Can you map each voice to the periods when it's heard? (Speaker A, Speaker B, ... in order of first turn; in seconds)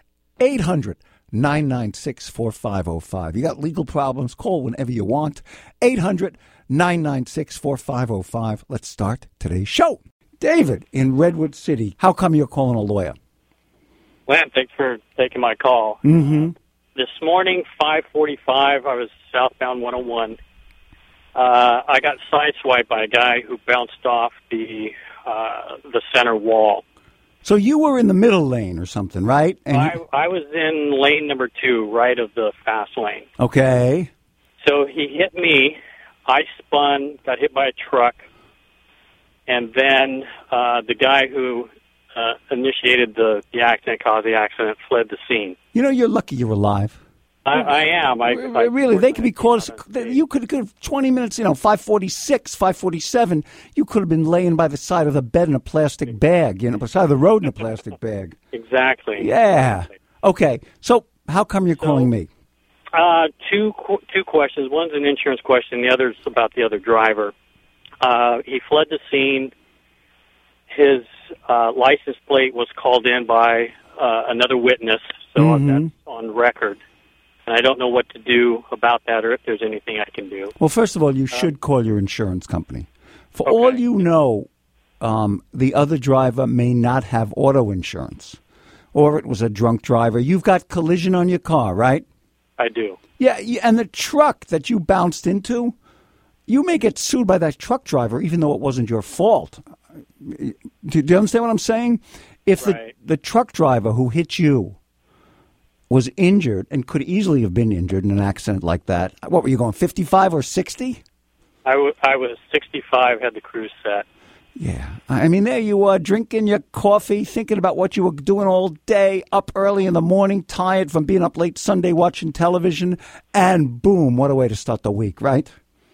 Speaker A: 0.4-13.2, 16.0-16.5, 27.4-30.0, 33.4-34.1, 45.7-47.0, 48.2-58.4, 59.2-62.3, 75.4-75.9, 80.6-84.5, 85.0-88.4, 88.9-92.0, 93.2-95.7, 96.5-99.6, 100.2-104.8, 105.9-111.0, 114.5-125.5
Speaker B: 14.3-16.0, 16.9-20.4, 21.3-26.8, 29.7-33.2, 34.6-38.2, 39.5-45.5, 47.4-50.2, 58.5-59.7, 61.8-62.1, 62.9-67.3, 68.0-69.5, 70.7-76.8, 77.5-80.5, 83.5-83.8, 92.6-93.0, 102.6-102.9, 111.6-114.0